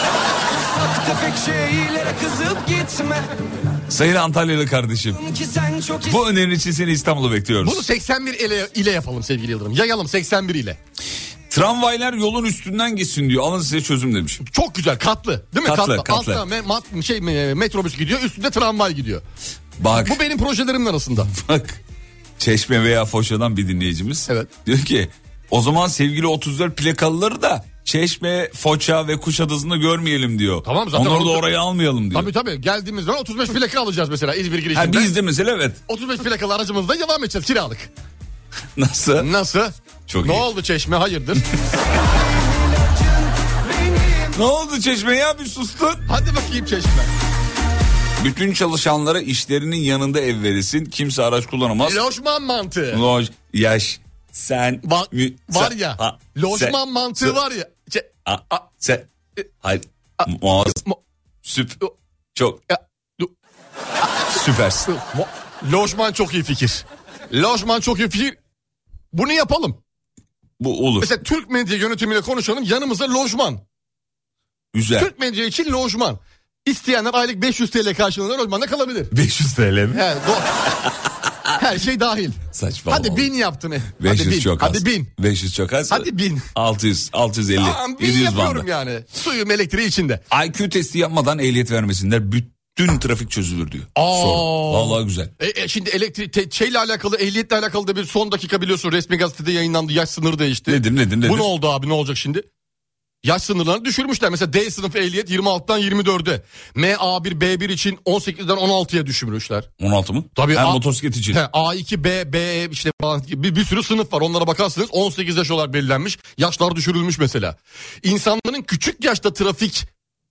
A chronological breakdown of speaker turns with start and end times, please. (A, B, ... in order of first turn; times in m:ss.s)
0:00.5-0:03.2 A
0:03.9-0:05.2 B
0:05.2-0:06.2 A
0:06.0-0:07.8 B
0:07.6-0:10.8 C
0:11.5-0:14.4 B
0:14.4-0:19.2 C
0:15.6-0:16.4 B
0:19.8-0:20.2 B
0:20.0-0:21.3 C
0:21.3-0:21.8 B
0:22.4-0:32.3 B
0:30.6-0:31.5 C
0:32.1-0:35.1 C
0:34.7-0:35.8 B
0:35.9-0:37.9 C
0:38.8-0:39.3 B
0:39.2-0:41.5 C
0:40.1-0:40.5 B
0:41.7-0:44.4 A
0:44.3-0:46.1 B
0:46.1-0:47.1 C
0:48.2-0:52.0 B
0:51.8-0:53.0 C
0:52.9-0:57.4 B
0:54.8-0:58.6 C
0:58.3-0:59.1 B
0:59.6-1:00.8 B
1:00.2-1:01.0 C
1:01.4-1:01.8 B
1:02.4-1:02.6 B
1:02.7-1:03.3 C
1:04.3-1:04.9 B
1:04.9-1:08.4 C
1:09.1-1:09.8 C
1:10.6-1:11.1 B
1:11.0-1:13.6 C
1:14.7-1:15.1 B
1:15.0-1:19.1 C
1:19.1-1:20.0 B
1:19.9-1:20.5 C
1:21.6-1:25.1 C
1:22.5-1:23.3 B
1:24.0-1:28.7 B
1:25.9-1:26.5 C
1:27.6-1:30.2 C
1:30.3-1:35.3 B
1:34.0-1:42.5 C
1:40.7-1:41.5 B
1:43.2-1:49.7 C
1:49.8-1:51.4 B
1:50.4-1:59.9 C